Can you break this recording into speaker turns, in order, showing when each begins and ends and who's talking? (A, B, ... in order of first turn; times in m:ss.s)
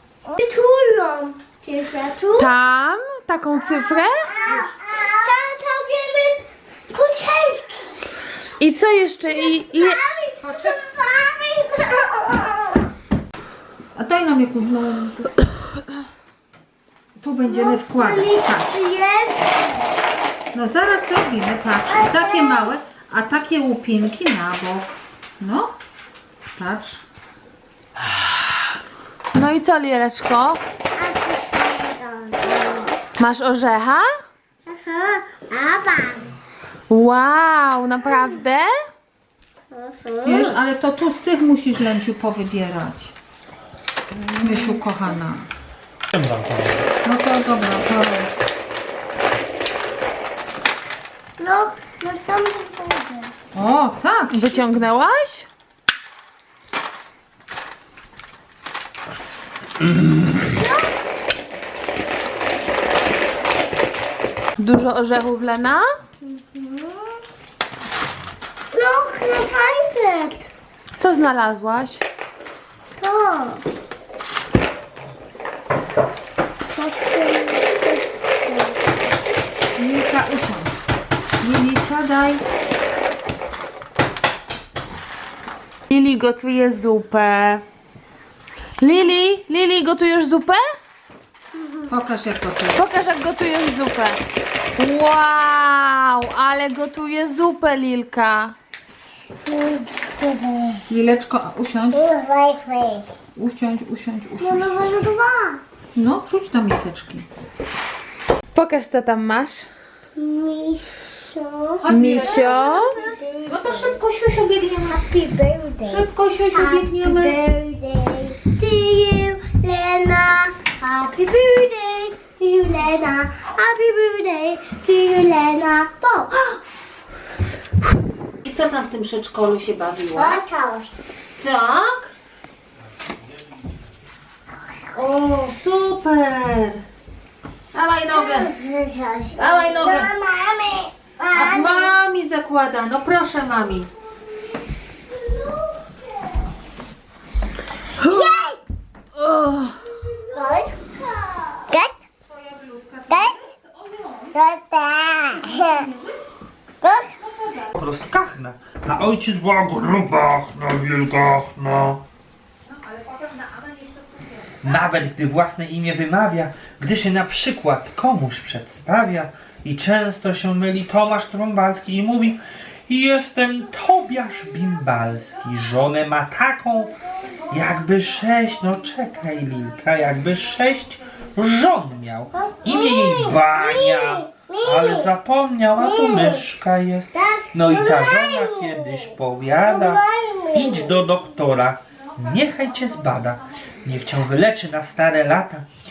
0:00.2-0:02.5 A
0:02.4-0:04.3 B
0:04.3-0:08.1 A
0:08.6-0:10.0 B
0:09.4-0:12.9 A
0:10.4-0:10.8 C
0:14.0-0:15.4 C
0:17.2-0:18.8 C
0:17.5-0:19.8 A
0:20.5-0:25.8 C
0:21.9-0:22.7 A
0:26.5-0:27.0 C
0:29.3-0:30.6 B
0:31.0-0:32.9 A
0:33.2-0:34.1 B
0:34.7-0:36.3 A
0:36.9-0:38.7 B
0:39.7-0:40.6 A
0:40.2-0:43.1 C
0:44.2-0:44.7 B
0:44.4-0:45.5 C
0:46.2-0:46.8 D
0:47.0-0:48.3 C
0:51.4-0:53.3 A
0:53.5-0:54.8 C
0:54.3-0:55.5 B
1:00.6-1:00.8 A
1:04.6-1:05.9 B
1:06.2-1:07.2 A
1:08.7-1:10.5 A
1:11.0-1:12.0 B
1:13.0-1:13.6 A
1:16.6-1:18.8 A
1:19.8-1:20.8 C
1:21.4-1:22.4 C
1:25.9-1:27.6 B
1:28.8-1:30.6 B
1:31.9-1:32.8 C
1:32.8-1:34.2 B
1:34.8-1:38.5 B
1:40.9-1:42.1 C
1:42.0-1:43.1 A
1:43.4-1:44.8 C
1:44.4-1:45.6 A
1:46.0-1:47.3 C
1:48.5-1:49.7 B
1:50.2-1:54.0 A
1:51.8-1:55.0 C
1:51.9-1:52.9 B
1:54.8-2:06.6 A
1:55.8-1:57.4 C
2:08.4-2:10.4 C
2:10.1-2:10.9 A
2:11.4-2:12.1 C
2:14.9-2:16.8 C
2:17.7-2:18.6 C
2:18.1-2:21.9 A
2:19.3-2:20.1 C
2:21.3-2:23.9 C
2:28.0-2:28.6 A
2:29.2-2:29.8 C
2:30.3-2:31.9 A
2:32.2-2:34.5 C
2:34.3-2:35.8 A
2:35.3-2:36.3 C
2:36.8-2:37.1 A
2:37.1-2:37.7 C
2:37.7-2:42.0 D
2:42.6-2:44.8 C
2:44.6-2:57.0 D
2:57.5-3:15.7 D
3:02.6-3:03.1 A
3:03.6-3:05.0 A
3:07.2-3:08.5 A
3:09.7-3:10.9 A
3:12.4-3:13.2 C